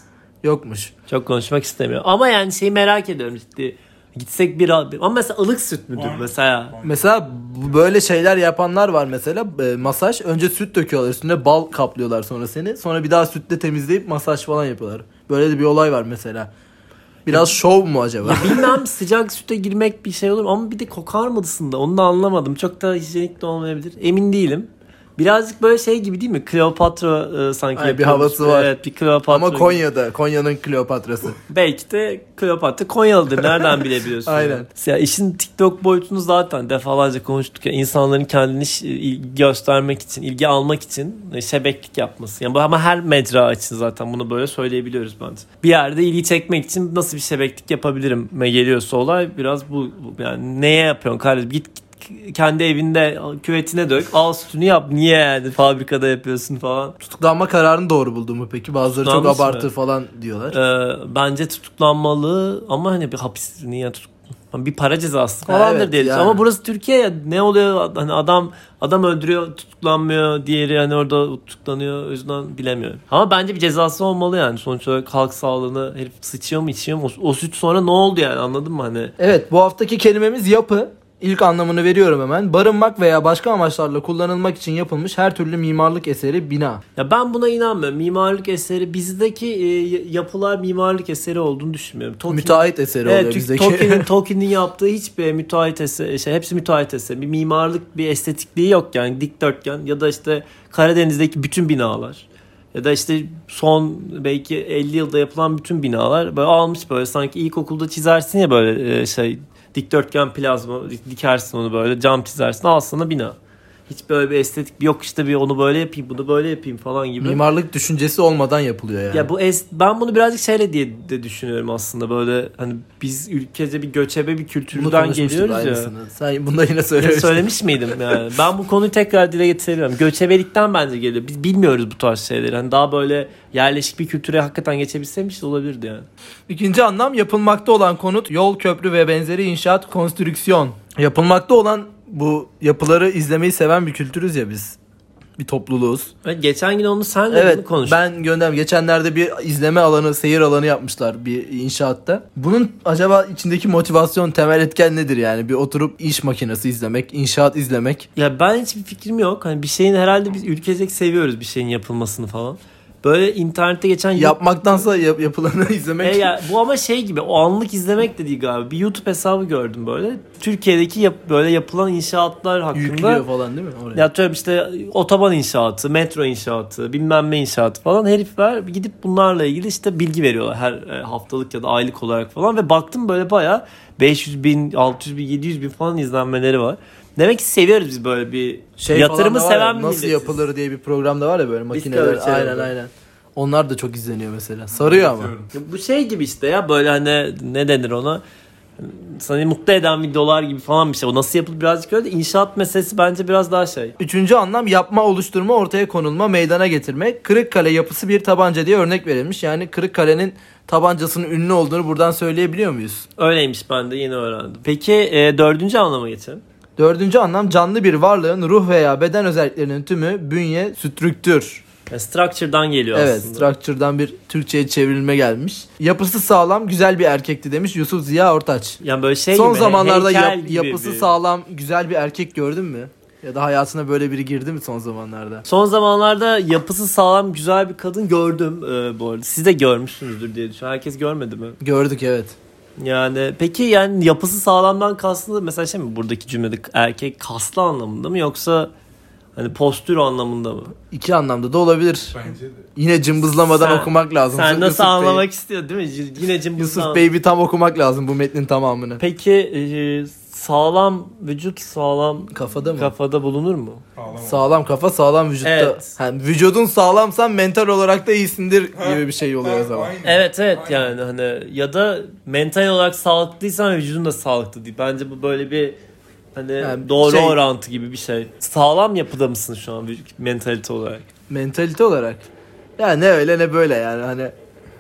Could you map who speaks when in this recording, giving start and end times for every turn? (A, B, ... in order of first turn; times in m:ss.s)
0:00.4-0:00.9 A
0:01.1-0:06.7 B
0:05.9-0:07.0 C
0:06.8-0:16.5 A
0:17.2-0:18.8 A
0:18.2-0:29.8 B
0:27.8-0:28.7 A
0:29.3-0:31.4 A
0:31.5-0:57.0 B
0:33.4-0:33.7 A
0:34.2-0:34.7 A
0:57.0-1:00.6 A
0:59.0-0:59.7 B
1:00.5-1:19.1 B
1:05.5-1:06.4 A
1:19.2-1:26.8 A
1:27.0-1:53.4 B
1:32.3-1:34.1 A
1:53.9-1:57.4 B
1:57.2-1:59.3 A
1:59.1-2:05.9 B
2:04.7-2:07.4 A
2:07.0-2:16.1 B
2:16.5-2:24.8 A
2:25.4-2:26.1 A
2:26.2-2:28.0 B
2:27.3-2:38.1 A
2:38.2-2:44.4 B
2:44.1-2:46.3 A
2:46.0-2:53.2 B
2:52.7-2:54.1 A
2:53.9-3:10.4 B
3:08.8-3:15.3 A
3:11.7-3:12.7 B
3:14.8-3:15.5 C
3:15.5-3:18.2 B
3:18.8-3:23.9 B
3:24.0-3:33.0 A
3:33.2-3:36.4 B
3:36.8-3:41.6 A
3:41.9-3:43.5 B
3:42.9-3:48.8 A
3:48.8-3:51.1 B
3:49.3-3:55.4 A
3:55.4-4:01.6 B
4:01.6-4:02.4 A
4:02.8-4:08.7 B
4:09.4-4:10.7 B
4:10.9-4:12.2 A
4:12.1-4:12.7 C
4:12.8-4:15.2 A
4:13.5-4:17.0 B
4:16.6-4:19.0 A
4:19.0-4:23.8 B
4:22.3-4:22.9 A
4:24.0-4:24.5 C
4:24.2-4:29.9 A
4:25.4-4:25.9 B
4:28.7-4:30.9 C
4:30.0-4:35.8 B
4:36.3-4:41.0 B
4:36.6-4:37.4 A
4:41.3-4:44.3 A